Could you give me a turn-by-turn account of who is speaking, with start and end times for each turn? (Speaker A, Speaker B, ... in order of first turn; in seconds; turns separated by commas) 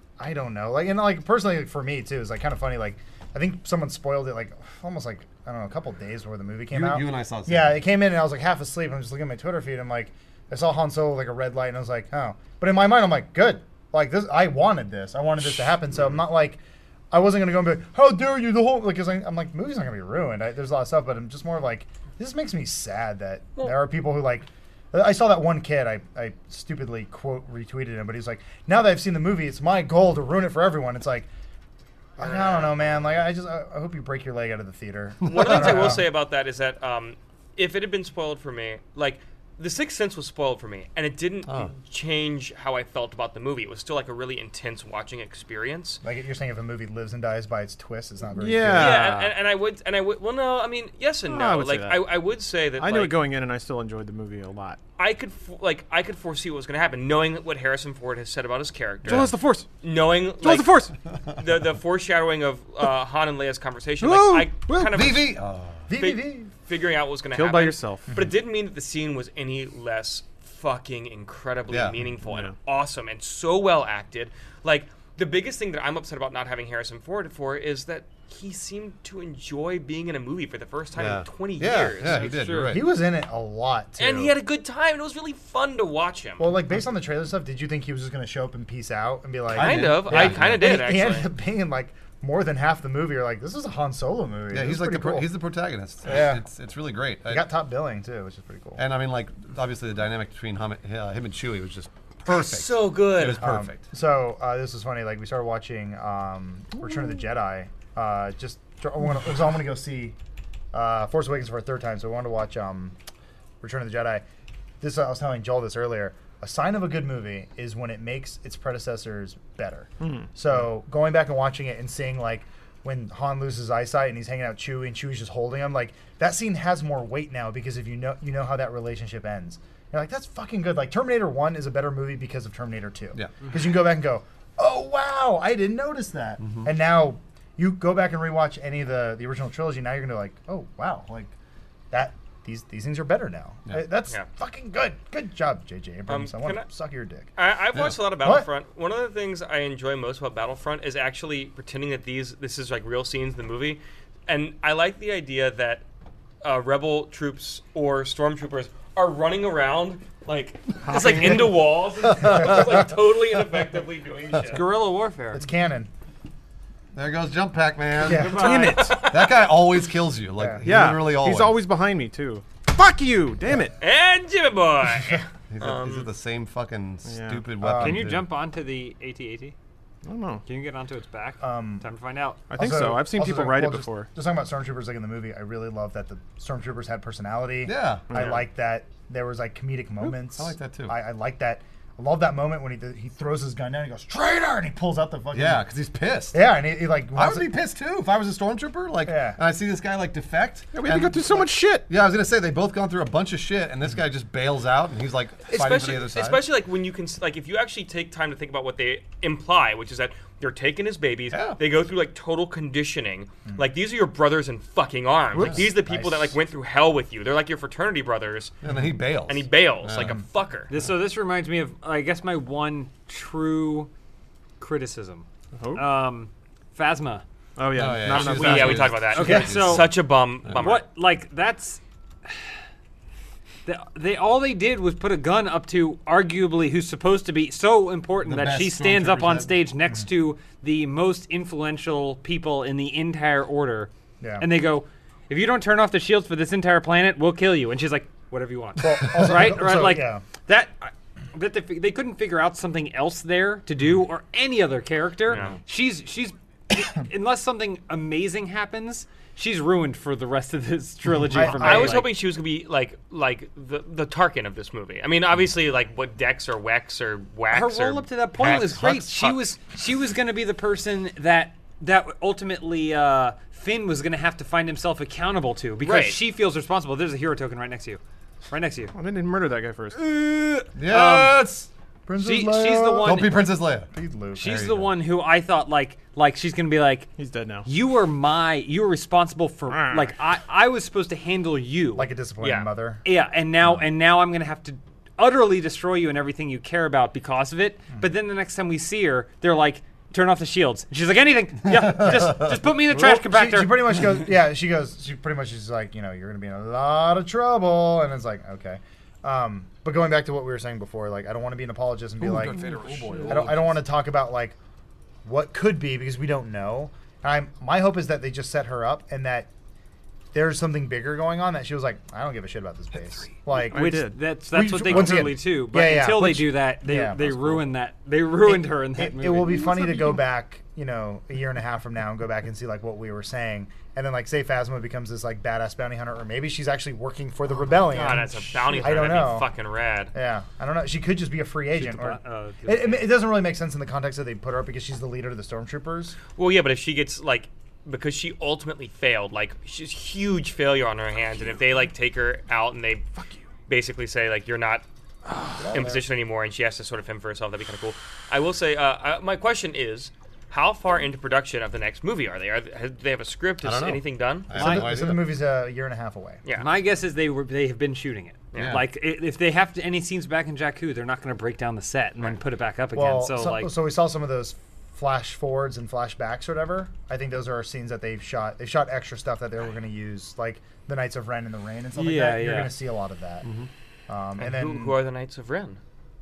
Speaker A: 0.2-16.6, Speaker B: 6.7-7.8, Speaker A: 17.1-31.3, Speaker A: 32.2-36.1, Speaker C: 32.2-33.2, Speaker C: 35.2-46.0, Speaker B: 41.5-41.7, Speaker A: 46.0-49.1, Speaker D: 48.4-49.3, Speaker C: 48.7-53.2, Speaker D: 51.3-52.1, Speaker D: 52.8-54.8, Speaker C: 55.0-65.3, Speaker D: 59.0-59.7, Speaker D: 60.4-61.0, Speaker D: 64.0-65.1, Speaker B: 64.9-65.9, Speaker A: 65.9-66.5, Speaker C: 65.9-82.3, Speaker D: 67.3-68.1, Speaker A: 68.1-68.3, Speaker B: 71.7-72.0, Speaker D: 72.2-72.5, Speaker B: 81.0-82.9, Speaker E: 82.0-82.8, Speaker A: 82.7-84.3, Speaker C: 84.0-86.5, Speaker A: 86.4-95.3, Speaker B: 89.5-90.7, Speaker C: 89.5-91.3, Speaker B: 94.5-97.5, Speaker A: 96.0-96.4, Speaker A: 97.3-98.8, Speaker B: 98.8-103.8, Speaker C: 102.3-103.5, Speaker A: 103.4-110.2, Speaker A: 110.7-113.0, Speaker A: 113.6-114.2, Speaker A: 114.8-141.3, Speaker D: 120.0-120.3, Speaker B: 133.1-133.5, Speaker B: 136.4-136.7, Speaker A: 141.9-147.3, Speaker C: 146.1-146.7, Speaker C: 147.4-155.8, Speaker A: 148.2-148.5, Speaker C: 156.4-164.7, Speaker D: 160.8-161.6, Speaker E: 164.4-165.4, Speaker A: 165.3-165.9, Speaker B: 166.9-171.6, Speaker A: 168.0-168.8, Speaker C: 168.0-169.4, Speaker D: 168.3-169.0, Speaker E: 168.4-168.8, Speaker A: 170.4-170.7, Speaker D: 170.6-173.8, Speaker C: 173.8-176.1, Speaker B: 175.5-178.3, Speaker D: 177.1-177.4, Speaker A: 177.6-178.1, Speaker E: 177.7-179.6, Speaker D: 180.0-180.4, Speaker E: 180.4-182.4, Speaker A: 181.4-181.8, Speaker D: 182.5-184.1, Speaker A: 182.5-195.6, Speaker B: 187.6-188.4, Speaker D: 188.1-188.4, Speaker B: 190.0-191.0, Speaker B: 195.3-196.4, Speaker A: 196.3-197.6, Speaker B: 197.1-206.4, Speaker A: 199.1-199.4, Speaker D: 200.7-201.9, Speaker C: 205.4-218.6, Speaker B: 211.3-211.6, Speaker B: 215.4-215.6, Speaker A: 215.4-216.4, Speaker B: 218.6-220.2, Speaker C: 219.3-220.7, Speaker E: 220.7-223.9, Speaker E: 224.6-227.2, Speaker D: 225.6-225.9, Speaker D: 227.6-229.0, Speaker B: 227.7-229.9, Speaker C: 228.1-230.8, Speaker E: 229.1-230.0, Speaker A: 229.2-229.5, Speaker E: 230.5-232.4, Speaker E: 233.7-262.1, Speaker B: 238.2-239.6, Speaker A: 244.2-244.5, Speaker A: 248.8-250.2, Speaker C: 255.3-255.6, Speaker A: 261.3-262.0, Speaker C: 261.4-269.4, Speaker E: 267.5-278.9, Speaker C: 275.8-276.2, Speaker D: 278.9-280.0, Speaker E: 279.9-281.4, Speaker B: 280.7-281.7, Speaker A: 282.1-283.4, Speaker E: 282.2-283.4, Speaker B: 283.0-283.9, Speaker A: 283.9-284.5, Speaker E: 284.3-287.1, Speaker B: 284.4-284.9, Speaker D: 287.2-287.7, Speaker E: 287.6-292.1, Speaker D: 289.7-290.1, Speaker A: 291.9-293.0, Speaker C: 292.4-292.7, Speaker E: 293.1-304.2, Speaker B: 301.7-302.6, Speaker A: 301.9-312.6, Speaker B: 312.2-313.8, Speaker A: 313.2-314.6, Speaker A: 315.2-319.5, Speaker A: 320.3-327.6, Speaker E: 323.6-330.1, Speaker D: 323.6-324.2, Speaker A: 328.4-339.5, Speaker C: 337.7-340.1, Speaker A: 340.1-346.2, Speaker E: 341.8-343.1, Speaker C: 346.3-354.8, Speaker A: 355.6-356.0, Speaker C: 355.6-364.8, Speaker B: 363.6-365.3, Speaker A: 364.5-366.4, Speaker E: 366.6-373.7, Speaker B: 368.6-368.8, Speaker A: 372.9-383.4, Speaker E: 381.9-382.7, Speaker B: 383.4-383.7, Speaker A: 384.1-385.0, Speaker C: 384.4-385.8